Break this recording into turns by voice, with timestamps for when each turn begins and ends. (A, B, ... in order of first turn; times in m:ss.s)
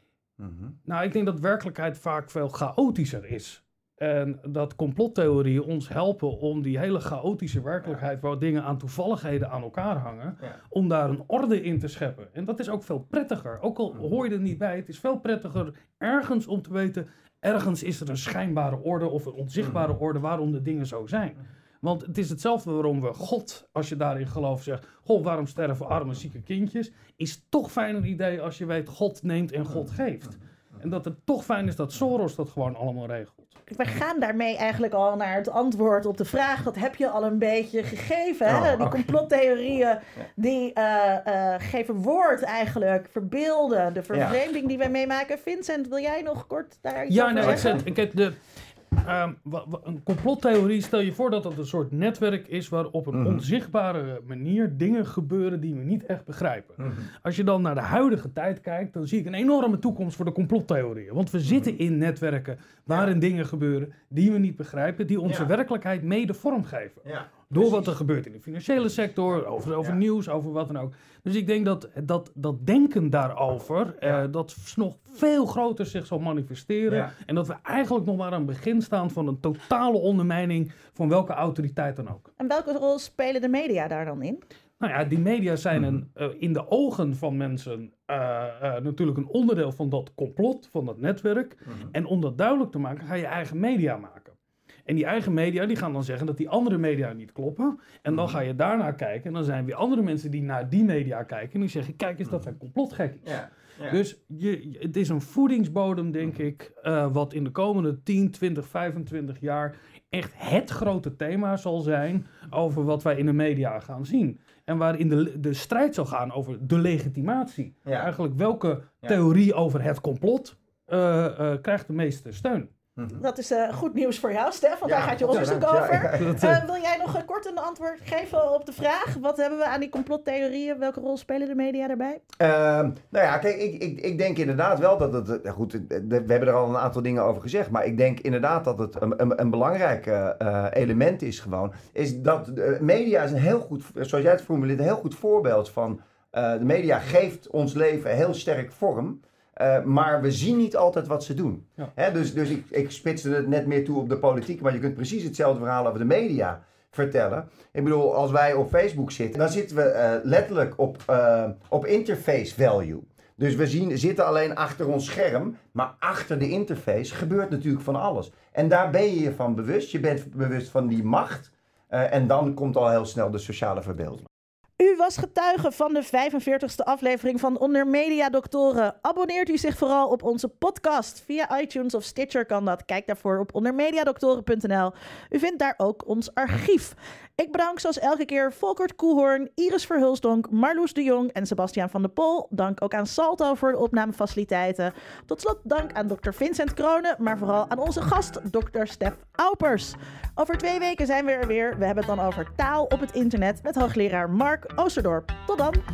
0:00.4-0:00.8 A
0:00.8-0:33.6 B
0:33.7-0:47.8 C
0:38.5-0:39.2 A
0:44.1-0:44.4 A
0:47.1-0:48.4 B
0:47.4-0:47.9 A
0:49.0-1:22.3 B
0:53.1-0:53.4 A
1:01.5-1:01.8 A
1:05.2-1:05.5 A
1:07.0-1:07.9 A
1:22.4-1:24.4 C
1:24.8-1:34.4 B
1:34.9-1:43.3 B
1:38.1-1:38.4 A
1:43.2-1:44.0 A
1:43.9-2:02.7 B
1:57.9-1:58.1 A
2:03.0-2:03.2 A
2:03.2-2:12.2 C
2:04.8-2:06.5 A
2:05.3-2:06.6 B
2:12.4-2:54.3 A
2:54.8-3:25.8 C